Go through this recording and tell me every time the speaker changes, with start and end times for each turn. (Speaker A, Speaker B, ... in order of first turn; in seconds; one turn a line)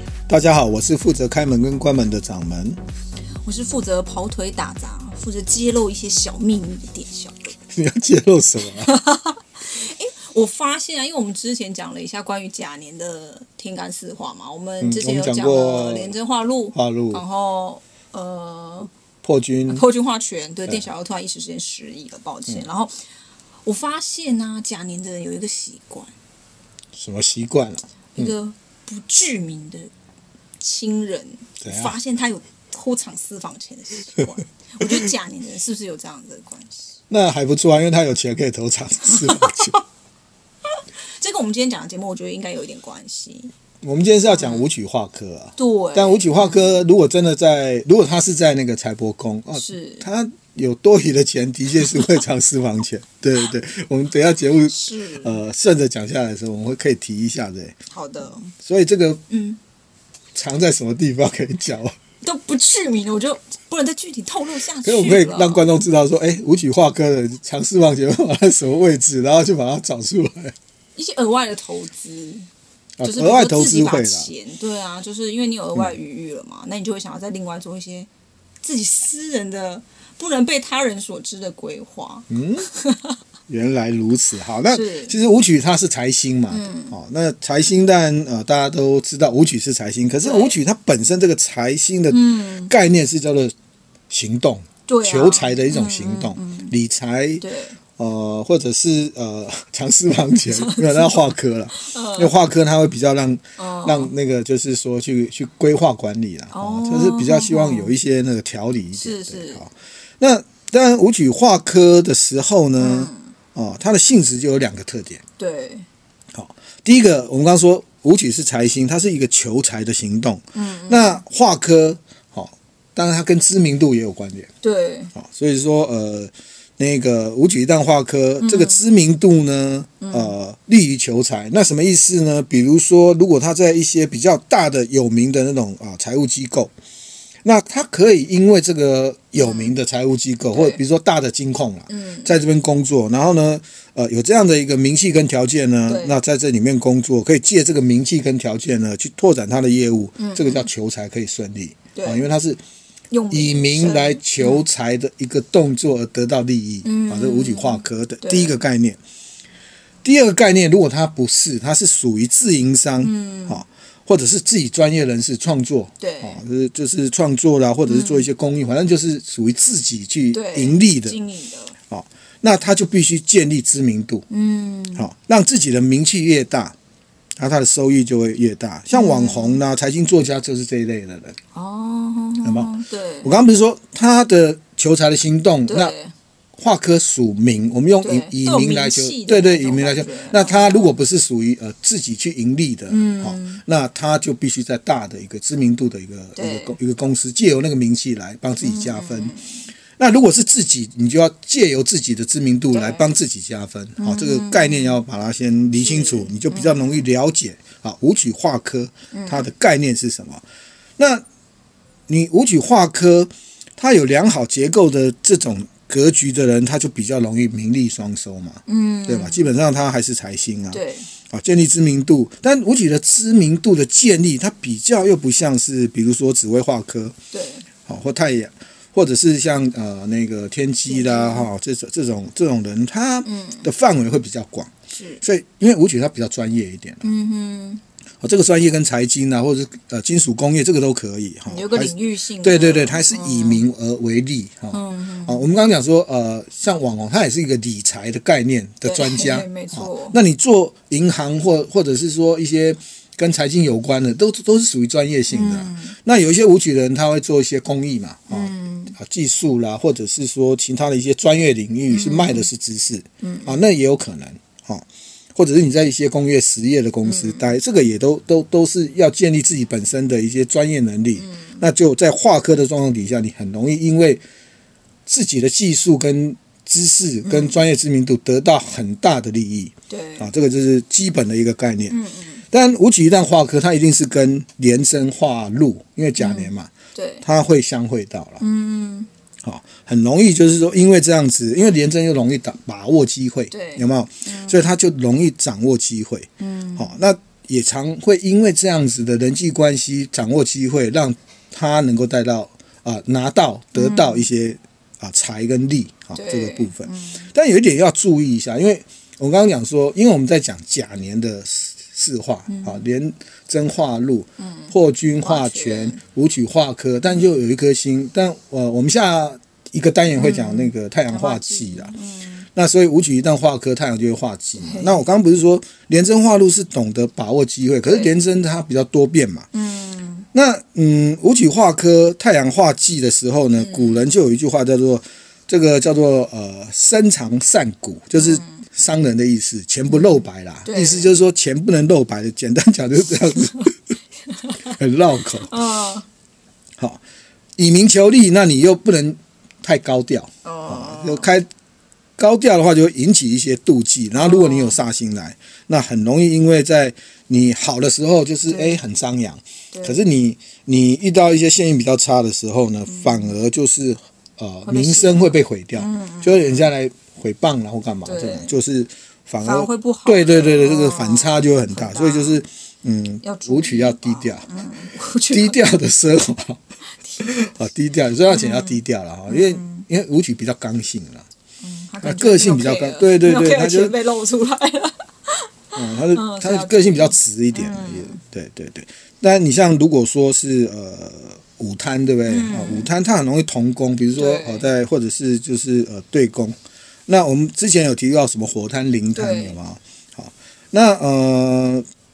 Speaker A: 0.3-2.8
Speaker B: 3.4-7.5
Speaker A: 7.7-8.9
Speaker B: 8.8-18.9
Speaker A: 14.8-16.1
Speaker A: 16.7-17.2
Speaker A: 19.2-19.8
Speaker B: 19.7-22.9
Speaker B: 23.6-26.1
Speaker A: 26.9-28.3
Speaker B: 28.1-29.9
Speaker B: 30.6-36.9
Speaker A: 31.6-31.9
Speaker A: 37.1-39.8
Speaker B: 39.1-39.5
Speaker B: 40.7-43.5
Speaker A: 43.8-57.8
Speaker B: 44.3-44.6
Speaker B: 45.6-46.8
Speaker B: 49.5-50.1
Speaker B: 54.7-55.4
Speaker B: 57.9-58.5
Speaker A: 58.5-59.2
Speaker B: 59.3-59.6
Speaker A: 60.3-61.9
Speaker B: 62.2-65.7
Speaker A: 64.8-70.5
Speaker B: 71.0-72.5
Speaker A: 73.0-74.3
Speaker B: 73.0-78.1
Speaker B: 78.6-83.2
Speaker A: 82.3-82.7
Speaker A: 83.5-93.5
Speaker B: 84.7-85.2
Speaker B: 86.5-86.9
Speaker B: 90.2-90.6
Speaker B: 92.1-92.7
Speaker A: 94.1-115.2
Speaker B: 94.9-96.7
Speaker B: 97.4-97.8
Speaker B: 100.5-102.3
Speaker B: 103.6-104.1
Speaker B: 106.5-107.9
Speaker B: 108.9-109.6
Speaker B: 112.8-113.3
Speaker B: 115.4-115.8
Speaker A: 116.3-124.5
Speaker B: 120.5-121.2
Speaker B: 124.6-125.1
Speaker A: 125.1-136.7
Speaker B: 128.4-128.8
Speaker B: 130.0-130.3
Speaker A: 137.4-152.6
Speaker B: 139.4-139.7
Speaker B: 140.5-140.8
Speaker B: 141.9-142.3
Speaker B: 145.9-146.2
Speaker B: 150.2-150.7
Speaker B: 151.9-152.3
Speaker B: 153.1-154.6
Speaker A: 153.3-159.0
Speaker B: 156.8-158.6
Speaker A: 160.0-171.2
Speaker B: 163.0-163.6
Speaker B: 166.0-166.4
Speaker B: 167.8-168.3
Speaker B: 170.3-171.7
Speaker A: 171.9-174.2
Speaker B: 174.3-175.1
Speaker A: 174.9-176.7
Speaker A: 177.4-181.4
Speaker B: 178.9-179.6
Speaker B: 181.5-183.3
Speaker A: 182.4-182.7
Speaker A: 183.2-185.9
Speaker B: 185.7-186.1
Speaker A: 186.6-199.3
Speaker B: 188.0-190.9
Speaker B: 192.9-193.6
Speaker B: 196.4-196.8
Speaker B: 198.6-199.7
Speaker A: 199.9-210.4
Speaker B: 202.7-203.1
Speaker B: 204.0-205.0
Speaker B: 205.8-207.0
Speaker B: 209.1-209.4
Speaker A: 211.0-211.2
Speaker A: 212.1-227.1
Speaker B: 218.7-219.5
Speaker B: 220.7-221.1
Speaker B: 227.3-227.7
Speaker A: 227.8-234.7
Speaker B: 230.8-231.5
Speaker B: 233.2-233.7
Speaker B: 234.9-235.2
Speaker A: 235.2-237.1
Speaker B: 237.0-237.8
Speaker A: 238.2-274.2
Speaker B: 241.5-243.6
Speaker B: 244.7-245.5
Speaker B: 248.8-250.2
Speaker B: 255.3-255.9
Speaker B: 258.3-258.9
Speaker B: 261.9-262.5
Speaker B: 263.2-263.6
Speaker B: 267.0-267.5
Speaker B: 271.2-271.6
Speaker A: 275.1-281.9
Speaker B: 277.2-277.6
Speaker B: 279.9-280.3
Speaker B: 281.9-282.4
Speaker A: 282.5-286.7
Speaker B: 286.2-287.2
Speaker A: 287.2-288.4
Speaker B: 288.4-289.1
Speaker A: 289.4-321.9
Speaker B: 293.5-294.7
Speaker B: 296.4-296.9
Speaker B: 303.7-304.3
Speaker B: 306.1-307.3
Speaker B: 312.5-312.8
Speaker B: 314.4-316.0
Speaker B: 320.1-322.4
Speaker A: 322.5-329.5
Speaker B: 324.6-325.0
Speaker B: 327.8-328.1
Speaker B: 329.5-330.3
Speaker A: 330.3-343.7
Speaker B: 333.6-334.0
Speaker B: 338.1-338.6
Speaker B: 339.9-341.1
Speaker A: 344.6-345.5
Speaker B: 345.5-346.1
Speaker A: 347.6-351.5
Speaker B: 350.4-351.3
Speaker A: 352.2-374.5
Speaker B: 354.1-354.8
Speaker B: 358.5-358.8
Speaker B: 359.7-360.0
Speaker B: 362.9-363.3
Speaker B: 364.6-366.7
Speaker B: 368.0-368.5
Speaker B: 369.4-372.4
Speaker B: 373.2-375.7
Speaker A: 375.3-376.6
Speaker A: 377.2-381.2
Speaker B: 378.3-379.8
Speaker B: 381.6-385.5
Speaker A: 382.0-383.9
Speaker A: 385.7-396.6
Speaker B: 386.1-388.2
Speaker B: 392.3-392.9
Speaker B: 394.1-394.7
Speaker A: 397.1-401.8
Speaker B: 399.1-399.6